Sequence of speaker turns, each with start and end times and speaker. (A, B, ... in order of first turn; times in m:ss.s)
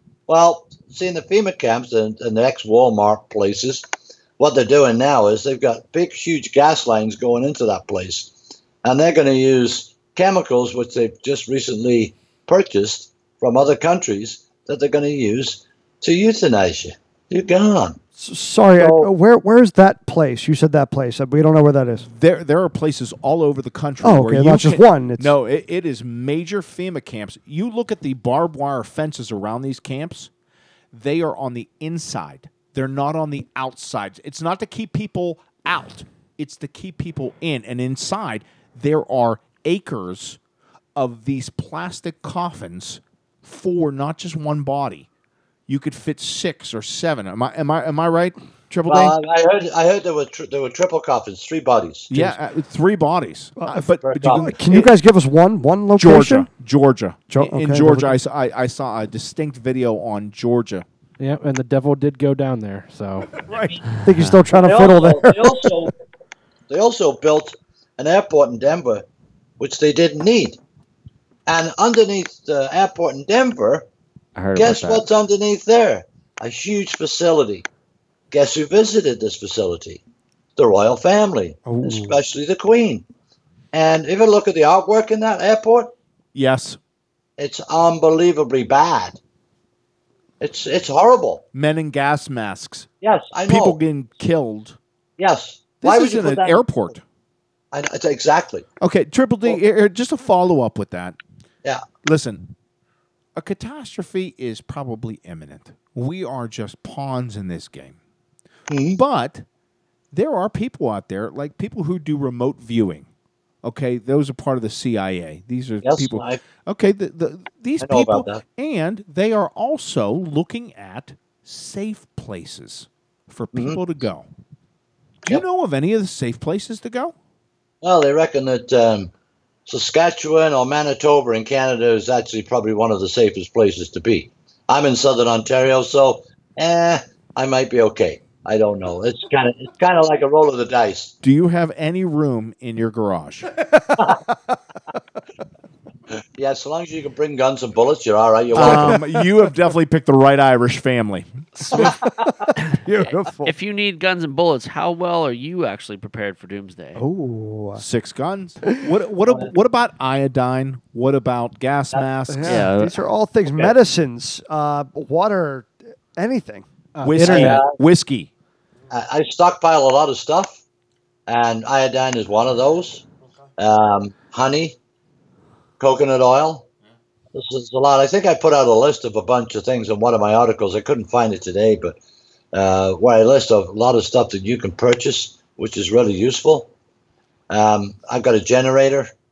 0:00.3-0:03.8 A
0:04.4-0:18.0 A
0:18.2-0:22.1 B
0:18.8-0:19.1 A
0:22.0-0:30.3 C
0:24.0-0:25.3 B
0:30.9-0:40.4 C
0:41.0-0:45.1 C
0:45.7-0:49.2 C
0:48.9-0:52.1 A
0:52.1-0:54.9 C
0:53.6-0:56.5 B
0:54.0-0:54.5 A
0:55.9-1:00.8 C
0:57.3-0:58.2 B
1:01.2-1:03.3 D
1:03.4-1:05.9 B
1:04.0-1:04.4 E
1:04.5-1:05.9 A
1:06.7-1:09.0 A
1:09.6-1:10.6 A
1:11.5-1:13.9 A
1:14.4-1:15.1 E
1:14.5-1:17.6 A
1:18.3-1:20.0 A
1:20.6-1:23.0 A
1:21.6-1:22.2 B
1:23.7-1:25.9 A
1:26.3-1:26.8 C
1:27.4-1:29.2 A
1:30.4-1:31.4 A
1:31.5-1:32.9 C
1:33.0-1:33.8 A
1:33.5-1:34.8 C
1:35.2-1:36.6 A
1:35.8-1:37.0 C
1:37.7-1:38.7 A
1:38.8-1:41.2 C
1:42.0-1:42.5 C
1:43.4-1:48.0 C
1:48.7-1:49.0 A
1:48.9-1:49.4 C
1:50.1-1:53.1 C
1:53.6-2:04.3 C
1:55.8-1:56.4 A
1:57.8-1:58.4 A
2:03.5-2:03.8 A
2:05.2-2:07.1 C
2:07.8-2:09.1 A
2:09.6-2:21.1 A
2:21.2-2:23.5 C
2:26.4-2:29.0 A
2:28.5-2:31.9 C
2:31.7-2:33.5 B
2:33.0-2:37.0 E
2:37.0-2:37.8 B
2:37.8-2:42.7 C
2:42.3-2:46.6 B
2:42.4-2:43.0 E
2:46.9-2:47.6 D
2:47.0-2:48.3 C
2:47.2-2:47.8 A
2:48.9-2:50.6 A
2:51.3-2:53.0 A
2:53.6-2:54.8 A
2:55.8-2:56.6 A
2:57.3-3:02.0 A
3:02.5-3:06.7 A
3:07.5-3:09.1 A